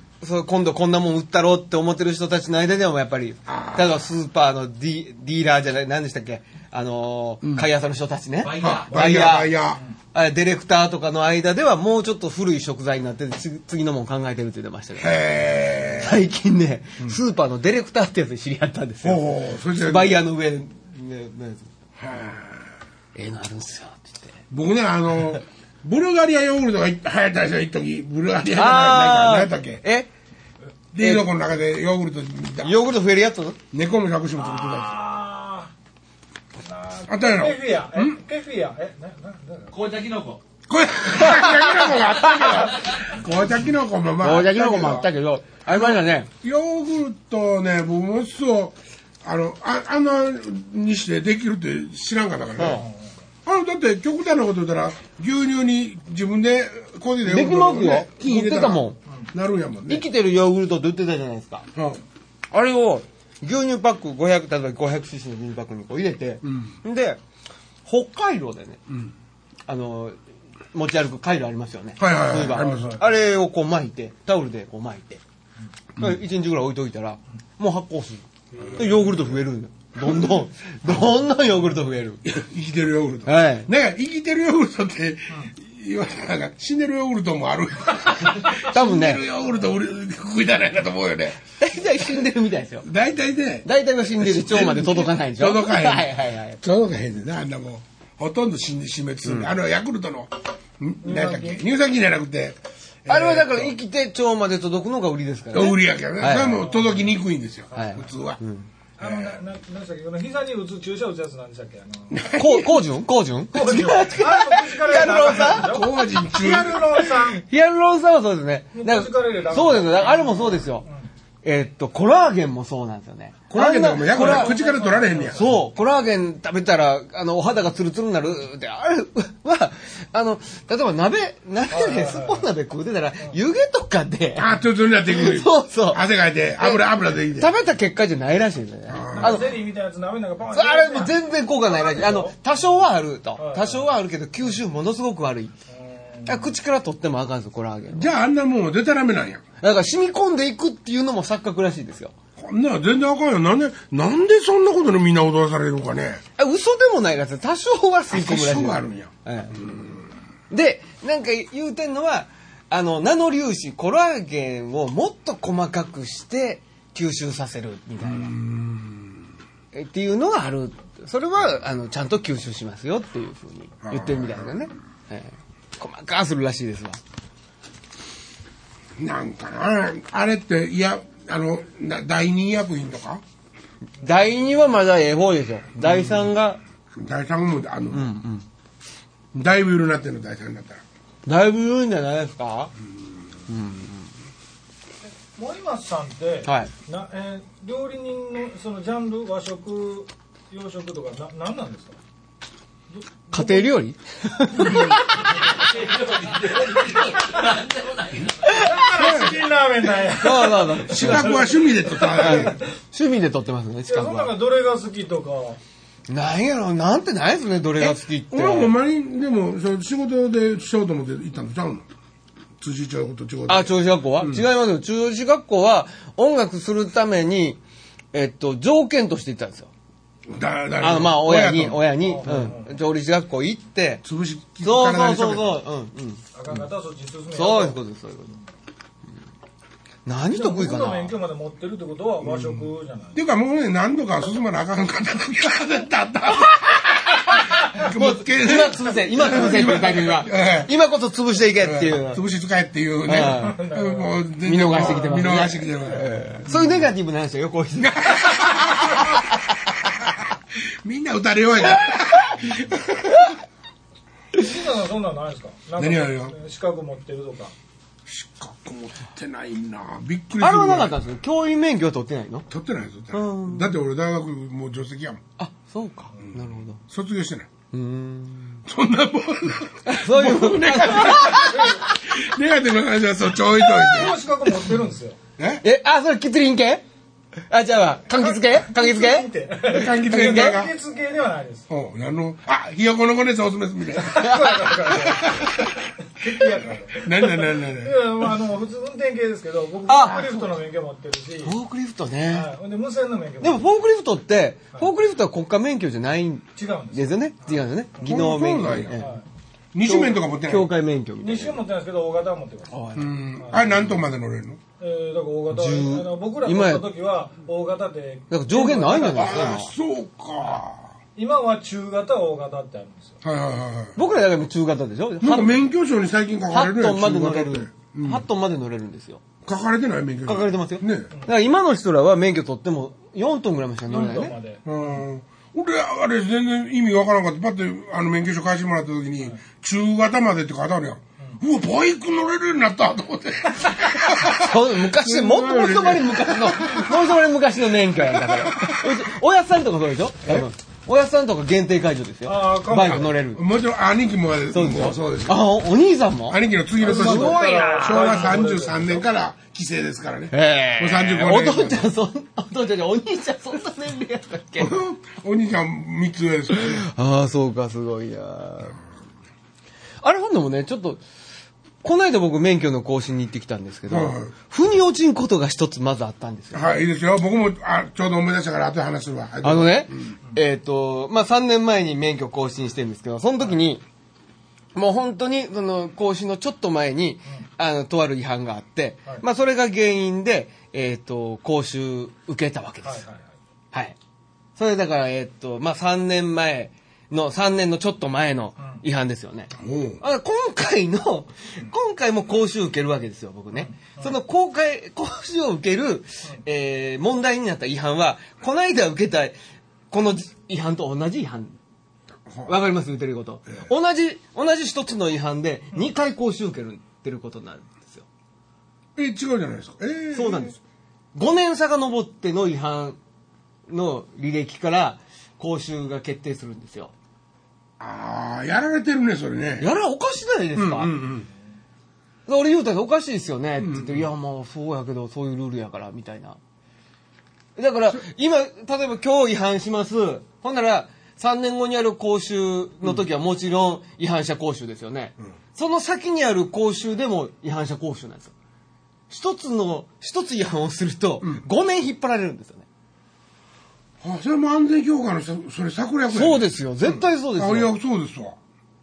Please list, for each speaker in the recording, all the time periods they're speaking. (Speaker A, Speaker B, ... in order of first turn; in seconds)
Speaker A: 0.2-9.5, 10.1-15.2, 15.9-21.7, 23.1-24.4, 28.5-30.1, 31.0-31.2, 32.6-33.6, 41.1-42.6, 44.2-46.3, 52.6-52.8, 57.2-59.0, 59.9-61.7, 62.5-67.2, 67.8-68.8, 69.7-70.2, 70.7-75.2, 76.0-82.2, 83.2-83.7, 88.5-89.2, 91.6-92.8, 93.6-96.6, 99.2-99.5, 103.1-106.6, 107.7-108.7, 112.3-115.8, 117.0-120.8, 121.4-124.5, 125.3-136.0, 136.6-139.5, 140.5-145.5, 146.2-148.1, 149.6-152.1, 156.4-159.9, 160.5-168.3, 169.7-177.0, 184.0-186.6, 187.9-188.4, 191.2-192.7, 193.5-194.1, 196.4-196.7, 203.3-205.6, 208.4-208.7, 210.2-211.4, 212.0-214.3, 216.1-218.7, 223.5-227.6, 228.1-229.7, 230.8-234.0, 234.6-236.5, 237.3-238.3, 240.1-241.1, 247.3-252.2, 253.1-253.6, 254.4-259.4, 263.1-263.3, 270.4-272.5, 273.1-273.8, 275.4-276.8, 277.7-278.6, 279.9-281.9, 285.6-286.8, 287.5-289.3, 289.8-290.6, 294.2-294.7, 299.9-300.4, 301.4-302.5, 303.4-309.1, 309.8-311.6, 312.7-313.1, 315.5-316.9, 318.3-319.7, 323.9-325.6, 326.5-329.2, 330.2-334.3, 344.1-353.4, 354.5-358.4, 360.3-364.8, 366.5-368.8, 370.0-371.0, 371.8-376.7, 379.4-383.8, 384.7-393.0, 394.6-409.3, 409.9-411.6, 412.4-418.1, 420.1-420.6, 421.1-423.0, 423.7-426.9, 429.6-430.9, 432.3-436.4, 437.6-448.3, 449.1-452.6, 456.1-457.7
Speaker B: 3.5-4.0, 8.6-9.8, 15.0-16.2, 19.0-20.2, 22.0-22.7, 24.5-29.8, 30.9-32.8, 33.7-35.0, 37.1-38.2, 40.7-45.1, 45.7-52.9, 53.5-60.0, 61.7-62.0, 66.4-66.8, 72.0-73.0, 80.0-80.3, 82.2-91.4, 92.8-103.8, 105.5-108.4, 109.0-109.4, 112.1-112.8, 115.2-117.0, 123.5-125.5, 134.4-137.5, 138.9-139.6, 147.9-149.4, 152.4-156.2, 158.1-159.9, 168.0-169.2, 173.8-174.6, 179.0-183.2, 185.8-186.2, 186.9-188.1, 189.3-190.8, 204.6-205.0, 208.9-209.4, 210.9-212.6, 217.8-221.9, 222.6-224.4, 230.3-231.9, 234.0-235.6, 242.2-250.7, 251.6-256.8, 257.8-263.1, 265.8-266.3, 268.1-271.0, 272.5-275.2, 276.2-277.5, 278.6-284.2, 285.4-285.6, 289.7-290.7, 291.7-295.9, 296.9-298.1, 308.0-309.0, 309.7-310.7, 312.9-314.6, 319.1-320.9, 323.2-324.0, 325.2-328.2, 329.4-331.1, 334.6-347.2, 347.9-349.0, 352.8-355.5, 356.3-361.9, 364.6-366.9, 373.9-374.3, 376.5-380.1, 399.6-400.0, 412.3-412.5, 418.9-420.5, 427.8-429.7, 430.5-431.3, 433.6-434.1, 454.0-458.4
Speaker C: 8.4-9.0, 39.7-40.4, 42.7-43.0, 205.3-208.7
Speaker D: 34.4-35.7, 36.6-39.7, 72.5-73.0, 78.5-79.2, 101.0-101.6, 106.4-107.1, 107.7-108.0, 109.0-112.2, 113.5-117.5, 118.7-121.1, 124.1-125.6, 131.7-132.4, 139.1-142.5, 143.3-143.9, 145.7-146.5, 195.3-202.0, 202.9-203.7, 208.4-212.6, 213.9-215.6, 232.0-232.8, 236.3-237.8, 240.3-243.2, 253.2-255.3, 264.3-267.5, 281.2-281.8, 283.7-285.2, 288.2-291.7, 294.0-301.6, 302.3-303.6, 306.6-308.1, 308.9-309.2, 311.2-312.8, 313.4-313.7, 314.8-319.6, 321.1-323.2, 333.9-334.6, 352.2-353.2, 356.8-359.1, 392.8-393.2, 398.6-398.8, 403.5-404.1